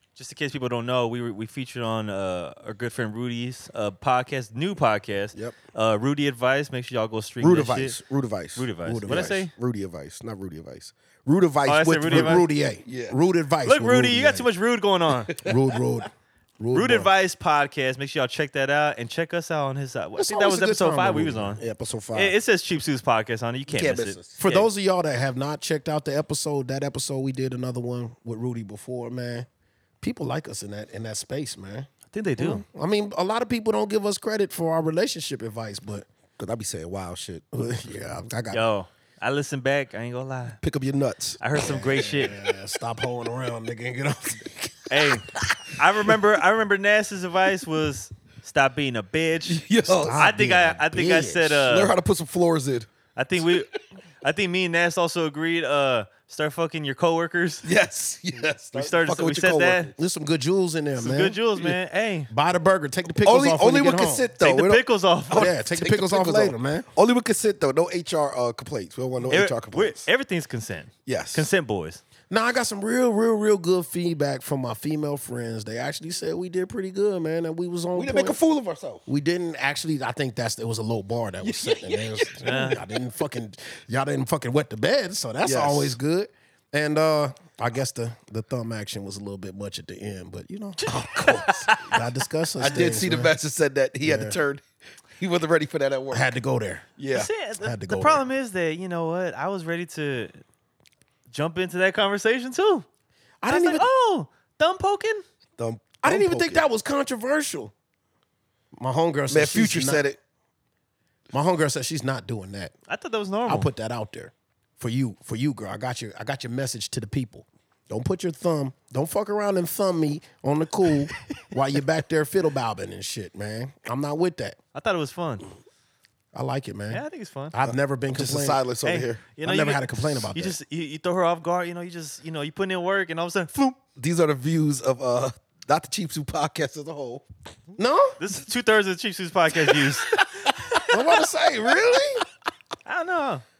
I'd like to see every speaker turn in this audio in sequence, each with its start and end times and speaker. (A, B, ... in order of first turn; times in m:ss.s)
0:00.2-0:08.0 A
0:07.4-0:13.2 B
0:08.6-0:09.5 A
0:08.8-0:09.4 C
0:11.7-0:12.4 A
0:12.1-0:14.5 C
0:13.6-0:15.4 A
0:15.3-0:15.8 B
0:15.4-0:17.1 C
0:16.7-0:21.6 A
0:20.2-0:21.6 C
0:21.6-0:22.3 B
0:22.1-0:24.7 A
0:23.7-0:24.4 B
0:24.4-0:29.5 C
0:30.0-0:36.0 C
0:32.1-0:32.6 A
0:36.4-0:37.4 B
0:37.5-0:38.6 C
0:38.5-0:40.6 A
0:40.6-0:41.4 B
0:41.4-0:42.4 A
0:41.5-0:45.2 C
0:44.9-0:51.9 A
0:49.5-0:50.3 B
0:49.9-0:51.0 C
0:50.9-0:52.9 B
0:53.2-0:57.6 A
0:57.6-0:59.9 B
0:58.7-0:59.9 A
1:00.0-1:01.4 C
1:01.0-1:02.3 A
1:02.3-1:04.3 C
1:03.2-1:10.0 B
1:04.4-1:05.5 A
1:05.3-1:06.9 C
1:09.3-1:12.0 A
1:11.0-1:11.4 B
1:12.3-1:18.4 C
1:17.9-1:19.0 B
1:19.0-1:30.9 C
1:21.4-1:22.4 B
1:22.4-1:22.8 A
1:25.4-1:26.0 B
1:30.8-1:32.0 A
1:30.9-1:31.7 B
1:31.8-1:33.3 C
1:32.6-1:34.6 B
1:34.0-1:34.4 C
1:35.2-1:36.2 B
1:36.1-1:36.9 C
1:37.0-1:37.3 B
1:37.1-1:40.4 A
1:37.6-1:38.2 C
1:41.3-1:42.8 A
1:43.4-1:43.8 C
1:43.5-1:45.2 A
1:45.6-1:46.6 B
1:46.0-1:47.7 C
1:48.8-1:50.0 C
1:49.3-1:50.2 B
1:51.3-1:52.7 C
1:52.9-1:53.7 A
1:53.5-2:04.6 C
2:04.7-2:05.4 A
2:06.3-2:08.6 C
2:06.9-2:07.5 A
2:08.1-2:09.2 B
2:08.8-2:13.8 A
2:09.4-2:10.6 C
2:14.0-2:17.2 B
2:17.8-2:18.2 C
2:18.2-2:20.8 A
2:20.9-2:22.2 C
2:22.8-2:23.4 A